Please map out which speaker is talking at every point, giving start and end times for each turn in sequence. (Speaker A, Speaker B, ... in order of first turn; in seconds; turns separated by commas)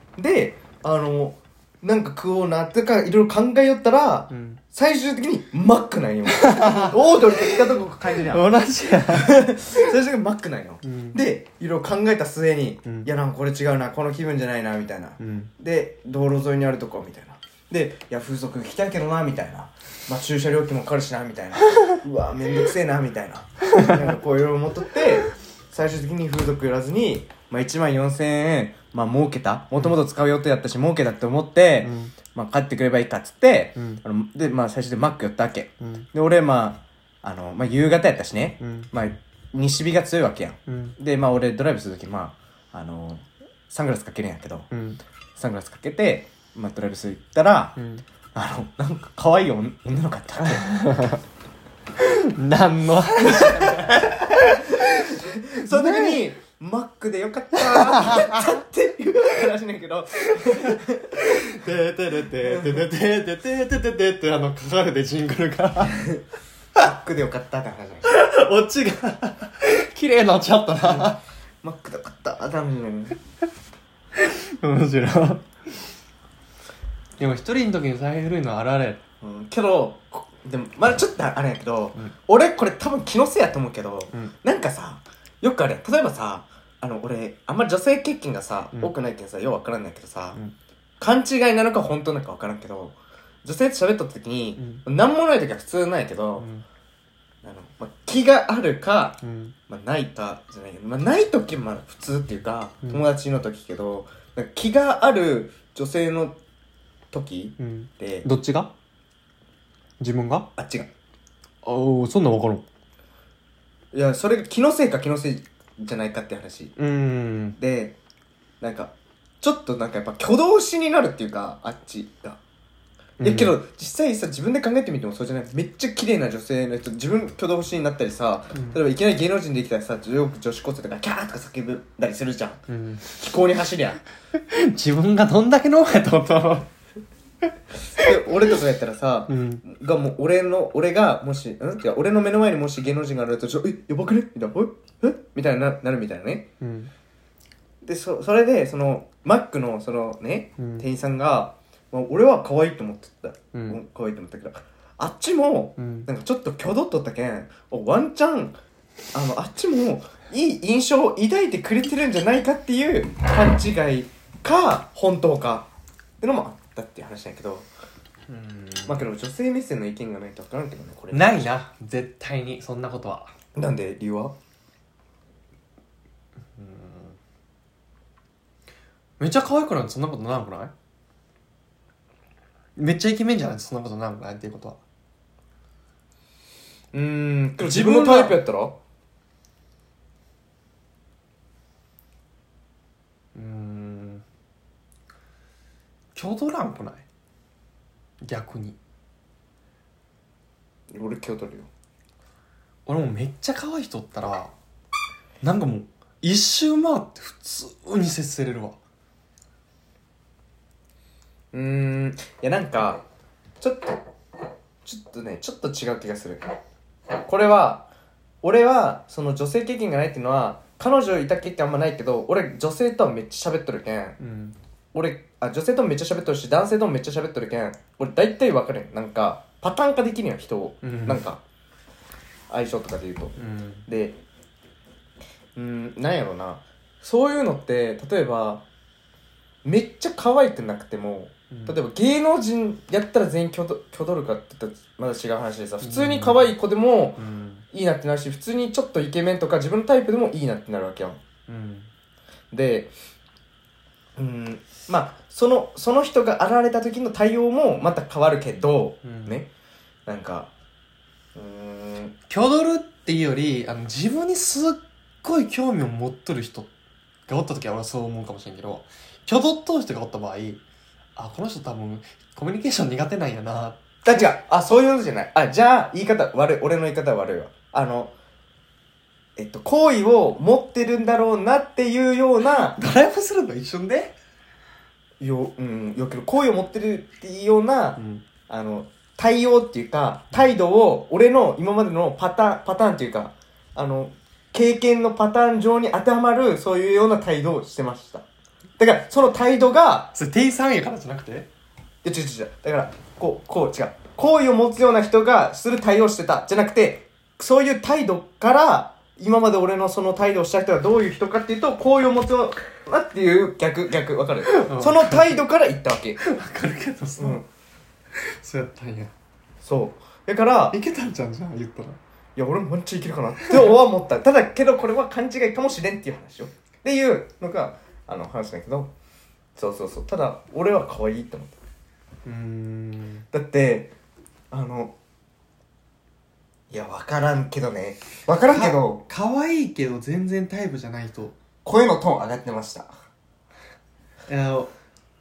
Speaker A: 0.2-8.5, Speaker B: 4.3-4.6, Speaker B: 6.3-7.7, Speaker B: 8.2-9.9, Speaker A: 9.1-44.7, Speaker B: 10.8-11.2, Speaker B: 15.2-15.5, Speaker B: 31.8-32.1, Speaker B: 33.8-34.0, Speaker B: 35.8-36.1, Speaker B: 38.6-38.9, Speaker B: 40.7-41.0, Speaker B: 44.7-45.0, Speaker A: 45.4-47.8, Speaker B: 47.8-48.0, Speaker A: 48.3-50.9, Speaker B: 50.7-51.2, Speaker B: 52.0-56.2, Speaker A: 53.2-61.5, Speaker B: 57.5-58.6, Speaker B: 60.2-66.1, Speaker A: 62.4-62.9, Speaker A: 66.8-68.1, Speaker B: 68.0-71.2, Speaker A: 70.8-73.2, Speaker B: 74.2-75.9, Speaker B: 77.2-79.0, Speaker A: 79.2-90.4, Speaker A: 91.0-96.5, Speaker B: 94.6-94.8, Speaker B: 96.4-96.7, Speaker A: 97.4-106.4, Speaker B: 99.2-99.5, Speaker A: 107.1-108.3, Speaker B: 107.6-108.7, Speaker B: 110.0-110.5, Speaker A: 110.6-110.9, Speaker B: 111.6-112.7, Speaker A: 113.9-116.7, Speaker B: 116.8-117.6, Speaker A: 117.6-118.0, Speaker A: 118.6-122.4, Speaker B: 123.2-123.6, Speaker A: 123.2-134.0, Speaker B: 128.5-128.8, Speaker B: 132.7-133.1, Speaker B: 134.4-136.7, Speaker A: 137.9-146.5, Speaker B: 139.3-139.6, Speaker B: 146.6-146.9, Speaker A: 147.8-158.6, Speaker B: 150.6-150.9, Speaker B: 153.5-153.8, Speaker B: 155.8-156.1, Speaker A: 159.1-165.7, Speaker A: 166.2-167.7, Speaker B: 168.3-169.1, Speaker A: 168.9-171.5, Speaker B: 171.1-173.3, Speaker A: 173.6-174.4, Speaker B: 176.6-177.2, Speaker B: 179.2-180.7, Speaker B: 182.8-184.8, Speaker A: 186.9-188.8, Speaker B: 187.6-188.4, Speaker B: 193.3-194.2, Speaker B: 196.2-197.1, Speaker B: 198.2-198.8, Speaker A: 200.9-201.7, Speaker B: 202.9-204.5, Speaker B: 205.4-208.8, Speaker A: 211.5-213.0, Speaker A: 213.6-214.0, Speaker A: 214.8-216.6, Speaker A: 217.2-217.9, Speaker A: 218.4-224.2, Speaker B: 224.2-224.6, Speaker A: 224.9-231.4, Speaker B: 230.8-231.2, Speaker A: 232.5-234.2, Speaker B: 233.4-233.9, Speaker A: 235.6-238.6, Speaker A: 239.6-247.2, Speaker B: 241.5-241.8, Speaker B: 245.8-246.5, Speaker B: 247.2-247.7, Speaker A: 247.7-251.2, Speaker B: 251.5-251.9, Speaker A: 252.5-252.9, Speaker A: 254.2-259.5, Speaker B: 259.0-259.4, Speaker A: 260.1-260.5, Speaker A: 261.3-262.1, Speaker B: 262.3-266.7, Speaker B: 267.3-270.6, Speaker B: 271.2-273.8, Speaker A: 274.1-278.1, Speaker A: 279.4-282.8, Speaker B: 282.7-284.1, Speaker A: 285.2-298.3, Speaker B: 288.0-288.2, Speaker A: 298.8-300.1, Speaker B: 300.1-301.5, Speaker A: 302.0-316.2, Speaker B: 314.4-315.3, Speaker B: 316.2-317.4, Speaker A: 317.2-317.4, Speaker B: 318.1-319.1, Speaker A: 319.6-320.8, Speaker B: 320.7-322.0, Speaker A: 322.4-328.9, Speaker A: 329.6-331.6, Speaker B: 332.2-333.2, Speaker A: 333.3-333.9, Speaker A: 334.5-334.9, Speaker A: 336.7-339.0, Speaker B: 338.5-341.4, Speaker A: 341.6-342.9, Speaker B: 344.3-344.7